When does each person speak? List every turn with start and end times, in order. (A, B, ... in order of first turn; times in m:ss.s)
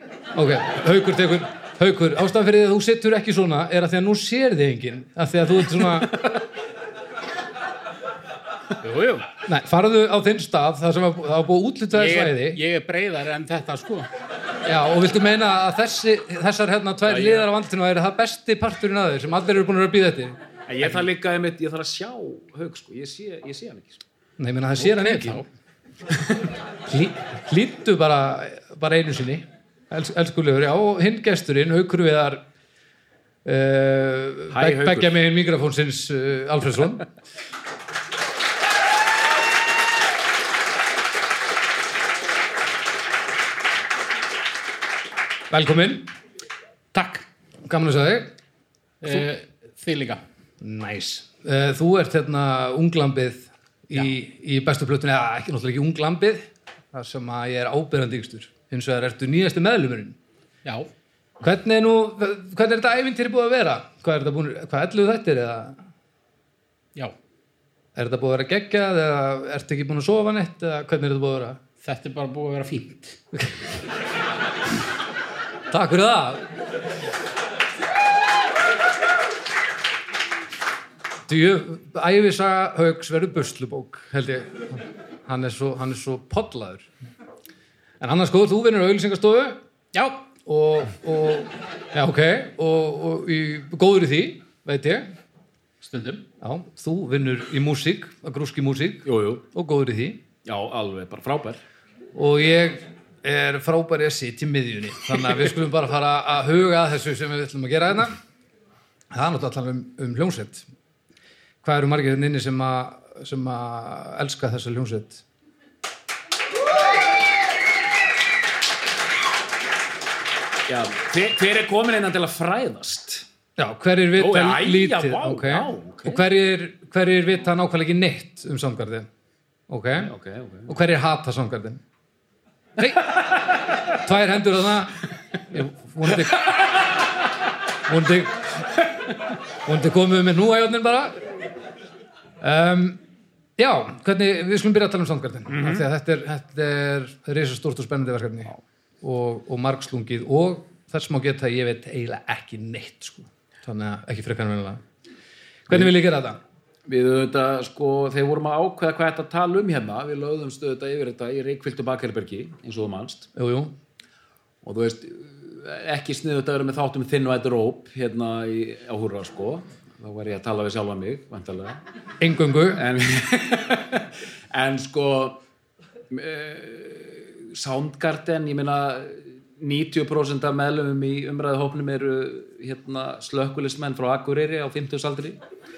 0:00.3-0:06.2 A
0:08.8-0:09.3 B
0:09.4-0:12.6 A
0:11.9-0:14.1 B
0:14.6-0:20.4 A
0:17.1-0:17.5 C
0:20.7-0:24.0 C
0:24.4-0:25.4 A
0:24.8-0:25.4 B
0:26.9-0:32.4 A
0:33.4-0:37.0 A
0:34.5-0:35.1 C
0:45.5-0:46.1 A
0:46.9-0:47.2 B
0:47.6-0:48.3 A
0:49.0-0:50.2 B
0:50.6-1:00.2 A
1:01.4-1:05.8 A
1:08.0-1:11.6 A
1:11.8-1:13.2 B
1:15.7-1:16.4 A
1:21.3-1:26.9 A
1:28.0-1:29.6 A
1:29.9-1:30.2 B
1:30.4-1:35.1 A
1:35.8-1:36.2 B
1:36.4-1:40.2 A
1:39.0-1:39.4 C
1:40.4-1:41.6 C
1:42.1-1:48.2 A
1:49.1-1:50.6 A
1:51.6-1:55.2 A
2:00.7-2:03.2 C
2:03.6-2:09.1 A
2:04.2-2:06.2 C
2:09.7-2:10.1 A
2:10.0-2:10.7 C
2:10.7-2:11.8 A
2:12.8-2:13.2 A
2:13.9-2:16.6 A
2:17.8-2:18.8 A
2:19.6-2:21.2 A
2:22.4-2:23.0 A
2:23.6-2:28.5 A
2:25.5-2:25.8 C
2:29.0-2:34.8 A
2:35.7-2:36.4 A
2:36.9-2:43.3 C
2:43.4-2:43.7 A
2:44.6-2:51.8 C
2:52.2-2:52.8 A
2:52.7-2:55.4 C
2:56.1-3:05.4 C